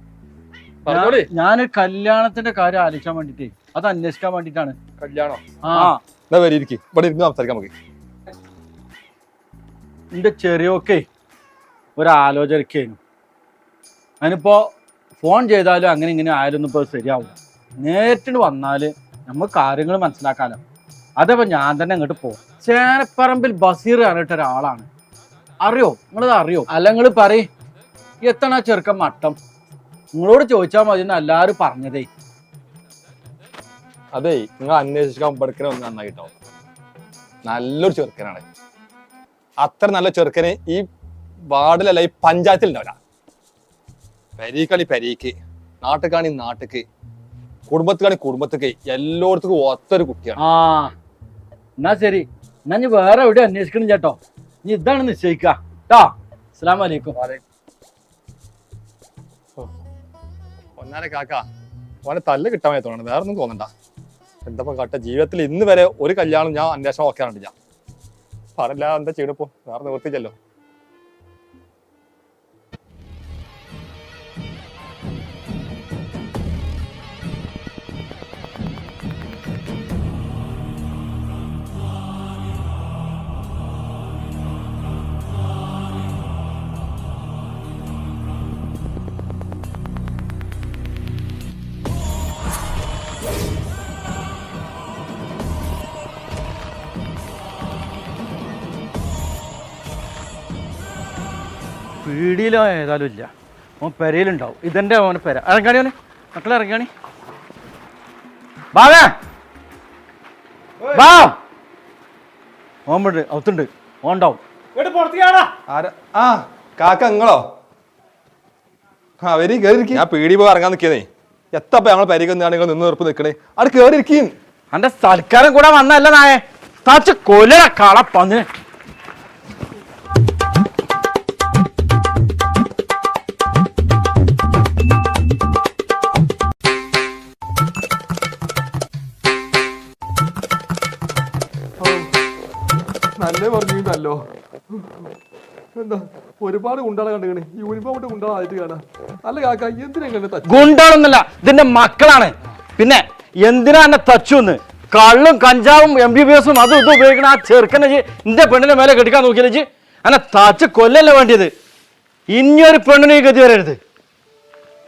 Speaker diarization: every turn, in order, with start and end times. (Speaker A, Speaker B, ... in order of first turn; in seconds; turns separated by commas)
Speaker A: 0.8-1.3, Speaker B: 0.9-4.8, Speaker A: 5.0-5.4, Speaker B: 5.6-6.0, Speaker A: 6.3-7.7, Speaker B: 10.1-11.1, Speaker B: 11.9-13.0, Speaker B: 14.2-20.6, Speaker B: 21.2-24.9, Speaker B: 25.6-27.5, Speaker B: 28.2-29.4, Speaker B: 30.1-32.1, Speaker A: 34.1-36.3, Speaker A: 37.5-38.4, Speaker A: 39.6-40.8, Speaker A: 41.5-43.0, Speaker A: 44.4-46.8, Speaker A: 47.7-50.4, Speaker B: 50.4-50.9, Speaker B: 51.8-57.1, Speaker A: 57.1-57.4, Speaker A: 60.8-61.5, Speaker A: 62.0-63.7, Speaker A: 64.5-67.5, Speaker A: 68.6-70.3, Speaker B: 102.0-106.9, Speaker B: 108.7-109.2, Speaker B: 110.9-111.4, Speaker B: 112.9-115.4, Speaker A: 115.7-117.4, Speaker A: 119.2-124.3, Speaker B: 124.7-128.5, Speaker C: 143.2-144.2, Speaker C: 145.8-150.8, Speaker B: 150.4-161.5, Speaker B: 162.3-163.8